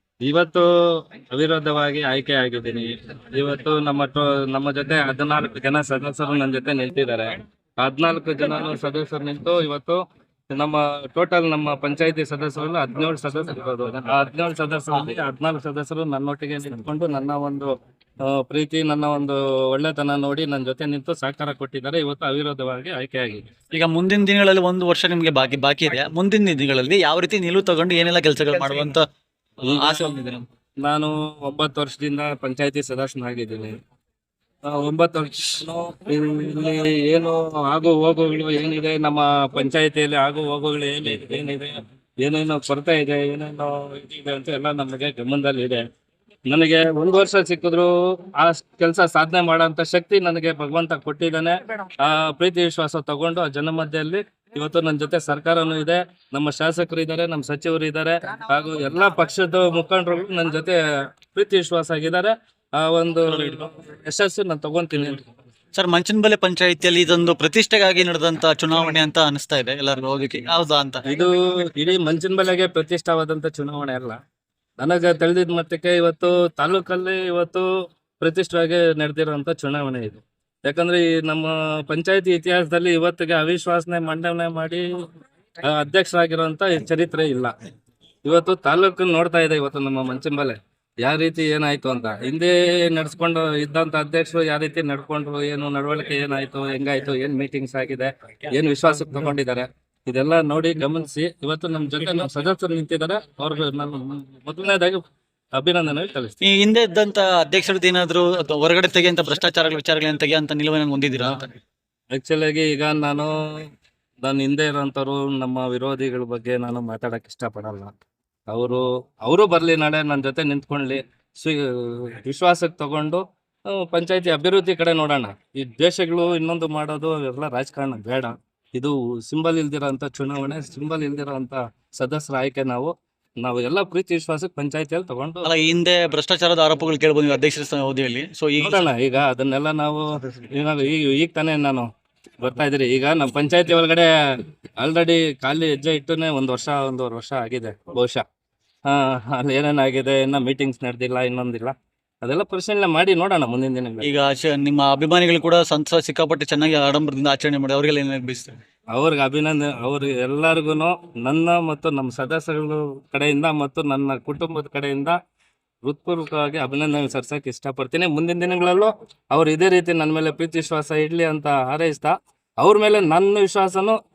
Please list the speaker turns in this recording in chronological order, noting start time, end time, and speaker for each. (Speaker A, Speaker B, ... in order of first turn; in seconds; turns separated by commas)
Speaker A: 0.2-17.7, Speaker A: 18.2-23.5, Speaker B: 23.7-29.0, Speaker A: 29.6-30.1, Speaker B: 29.6-30.4, Speaker A: 30.8-33.7, Speaker A: 34.7-45.8, Speaker A: 46.5-60.8, Speaker A: 61.3-65.3, Speaker B: 65.7-71.0, Speaker A: 71.0-74.2, Speaker A: 74.8-77.7, Speaker A: 78.2-84.9, Speaker A: 85.6-87.5, Speaker A: 88.2-105.0, Speaker A: 105.6-106.3, Speaker B: 106.4-111.5, Speaker A: 112.1-113.7, Speaker A: 114.2-117.9, Speaker A: 118.5-135.5, Speaker B: 135.4-138.8, Speaker A: 138.6-141.9, Speaker A: 142.4-144.1, Speaker A: 144.8-148.2, Speaker A: 148.9-154.1, Speaker B: 154.0-158.5, Speaker A: 158.9-165.2, Speaker A: 165.8-174.0